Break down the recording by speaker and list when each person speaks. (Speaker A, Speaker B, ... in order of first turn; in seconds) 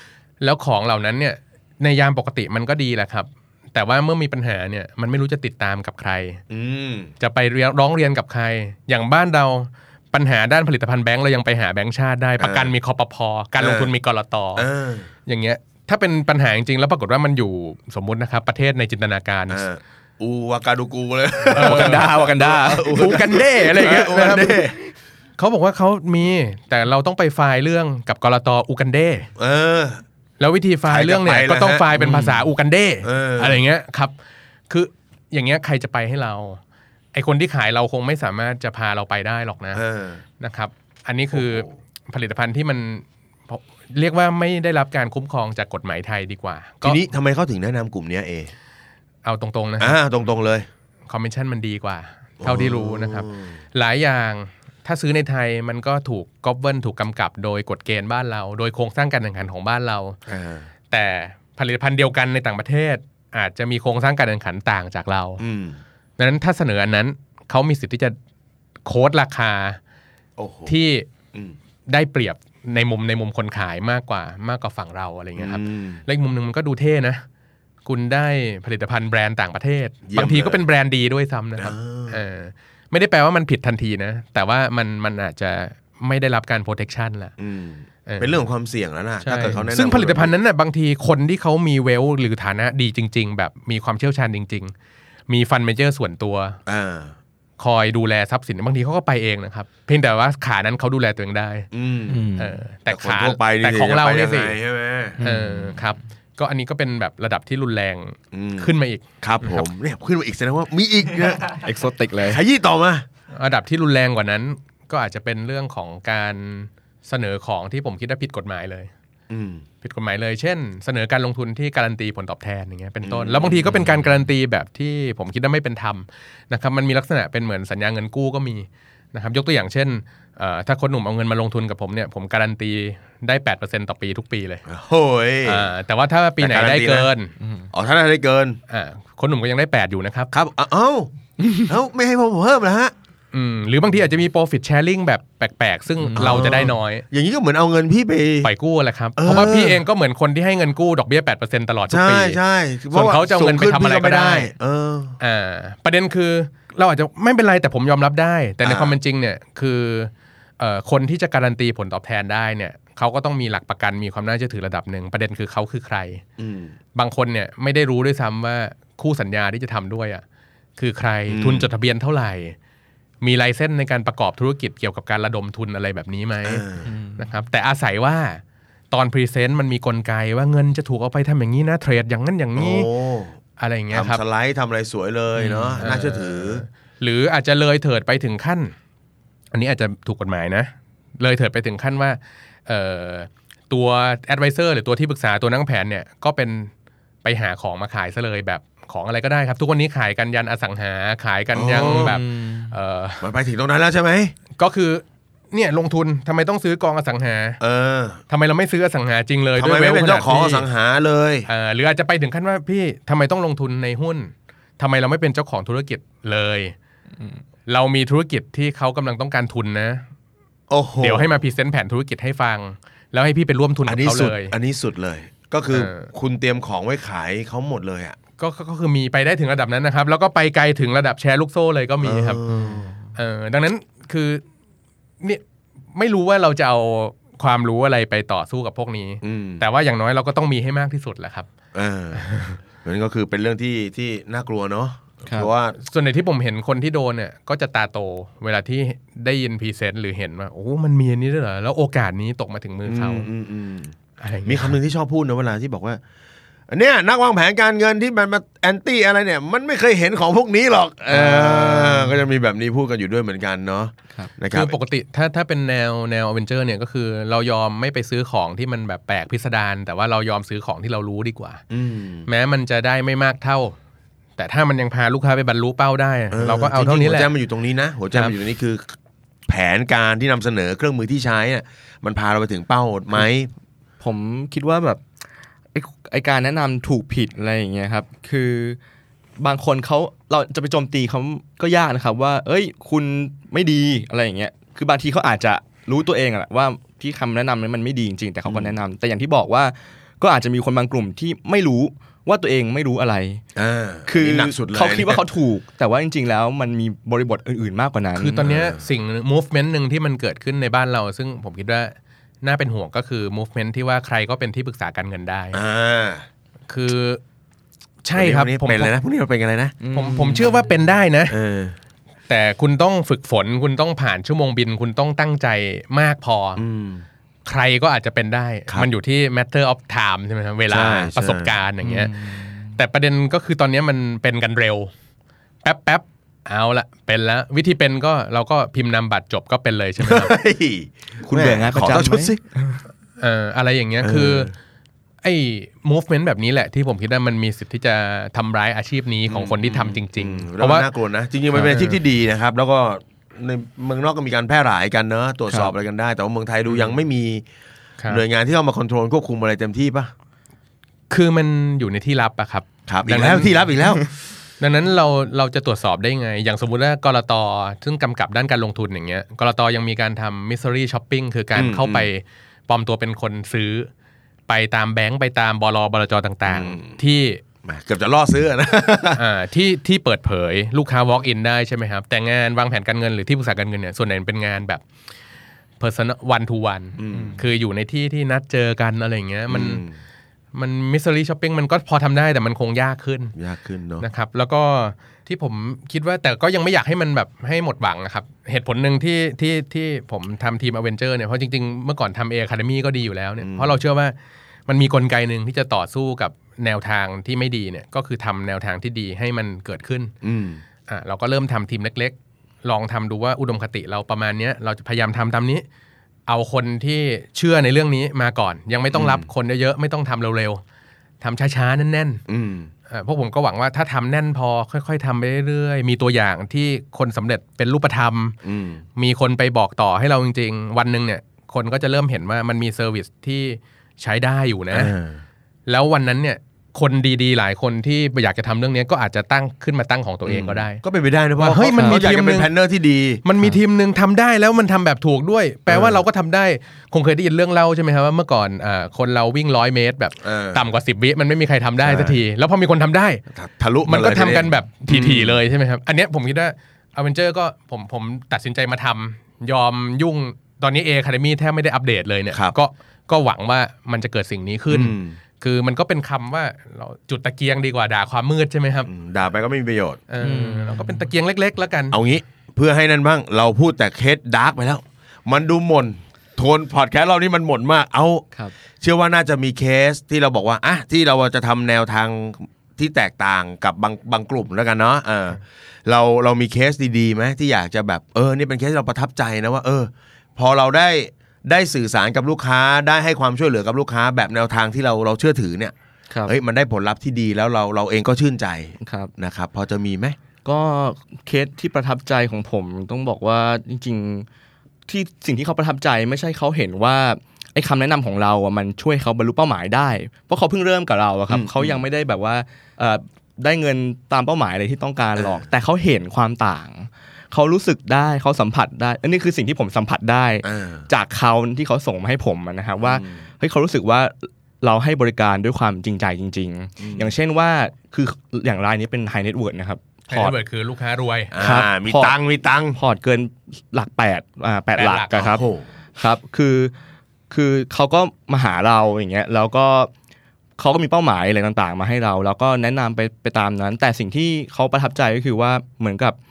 Speaker A: 0.4-6.4, 7.2-14.7, 15.3-19.7, 21.5-22.1, 22.7-24.6, 25.4-29.3, 30.4-34.1, 34.7-36.6, 37.1-39.8, 40.4-47.0, 49.2-50.0, 51.1-60.2, 60.9-65.4, 66.2-68.2, 68.9-69.8, 70.7-71.1, 71.9-77.2, 77.8-87.3, 88.1-88.4, 89.2-94.7, 95.3-96.6, 97.6-101.7, 102.4-104.6, 105.2-109.7, 113.3-118.9, 119.8-134.6, 135.4-137.3, 138.7-140.3, 143.3-147.1, 148.4-152.4, 152.9-154.5, 155.2-166.2, 166.9-170.2, 170.8-172.6, 173.2-176.7, 177.2-182.9, 183.6-184.2, 185.8-188.7, 189.5-196.7, 197.2-203.3, 204.6-207.6, 208.3-210.7, 211.5-216.8, 217.7-220.0, 221.0-224.6, 225.7-226.1, 228.4-232.4, 233.2-234.4, 235.9-241.5, 242.2-242.6, 245.8-253.3, 254.2-254.8, 264.5-271.6, 272.3-273.8, 274.4-277.3, 308.1-315.6, 316.7-317.2, 318.0-318.9, 319.9-321.4, 322.3-326.6, 327.4-332.1, 332.7-334.9, 335.6-340.4, 343.2-344.5, 345.2-350.9, 361.1-363.7, 364.6-373.9, 374.5-377.4, 379.2-384.8, 385.8-389.8, 390.5-393.4, 394.0-404.1, 404.7-410.1, 410.9-415.6, 416.3-420.6, 421.2-422.2, 422.9-428.4, 429.0-434.9, 435.7-440.8, 441.4-442.5, 443.2-453.2, 453.9-468.9, 470.1-472.0, 530.1-531.4, 534.8-535.4
Speaker B: 6.5-7.1, 12.4-12.7, 13.6-13.9, 14.6-15.1, 19.5-24.8, 29.4-30.0, 30.9-31.9, 33.0-33.6, 39.7-40.2, 41.3-41.7, 46.8-48.5, 49.8-50.7, 52.4-53.6, 60.3-60.7, 65.4-65.8, 70.4-70.8, 75.4-76.0, 80.1-80.6, 81.6-82.2, 87.4-90.3, 96.7-97.2, 101.7-102.3, 102.9-105.2, 108.3-111.6, 112.2-113.0, 119.3-119.6, 123.0-123.9, 134.7-135.7, 136.4-137.1, 137.7-138.6, 140.3-142.9, 146.2-148.5, 149.2-149.8, 151.9-155.2, 158.6-159.0, 166.4-166.8, 171.3-171.7, 176.4-176.9, 182.6-183.3, 183.9-186.6, 201.5-202.2, 203.2-204.3, 207.6-208.2, 209.6-211.5, 220.7-221.3, 223.9-228.2, 232.0-232.9, 239.2-239.6, 241.7-245.8, 252.9-256.0, 256.7-264.8, 271.7-272.3, 276.3-279.0, 279.5-283.5, 298.5-298.8, 303.6-305.2, 308.4-308.8, 315.5-316.3, 318.1-319.8, 321.3-321.8, 326.6-327.1, 330.7-331.6, 340.0-342.4, 344.0-344.5, 349.3-357.4, 358.1-360.1, 362.9-364.1, 371.6-372.1, 376.5-377.0, 377.6-379.2, 387.0-387.4, 389.5-389.9, 393.4-394.1, 403.4-403.8, 410.2-410.6, 418.9-419.3, 422.3-422.7, 428.4-428.8, 434.7-435.2, 440.3-443.2, 445.7-446.1, 450.2-450.6, 451.8-452.2, 453.3-455.4, 464.7-465.2, 468.9-470.0, 471.9-478.2, 478.8-495.7, 496.2-500.2, 511.3-511.8, 515.2-515.5, 520.4-520.9, 522.8-523.2, 526.8-527.1, 531.3-532.8, 535.2-535.7
Speaker C: 21.5-23.2, 31.9-32.4, 102.1-102.5, 105.2-105.8, 111.5-112.4, 146.0-146.4, 176.8-177.3, 185.4-185.8, 201.8-202.8, 261.1-262.2, 284.0-285.0, 285.7-288.8, 289.4-303.4, 304.1-308.5, 319.8-320.6, 331.8-332.7, 341.2-342.8, 351.6-351.9, 387.1-387.4, 441.8-442.0, 470.2-471.1, 498.8-499.1, 500.4-504.3, 504.9-530.4, 531.4-532.1, 532.8-535.4, 536.0-536.7, 537.3-539.9, 540.6-546.2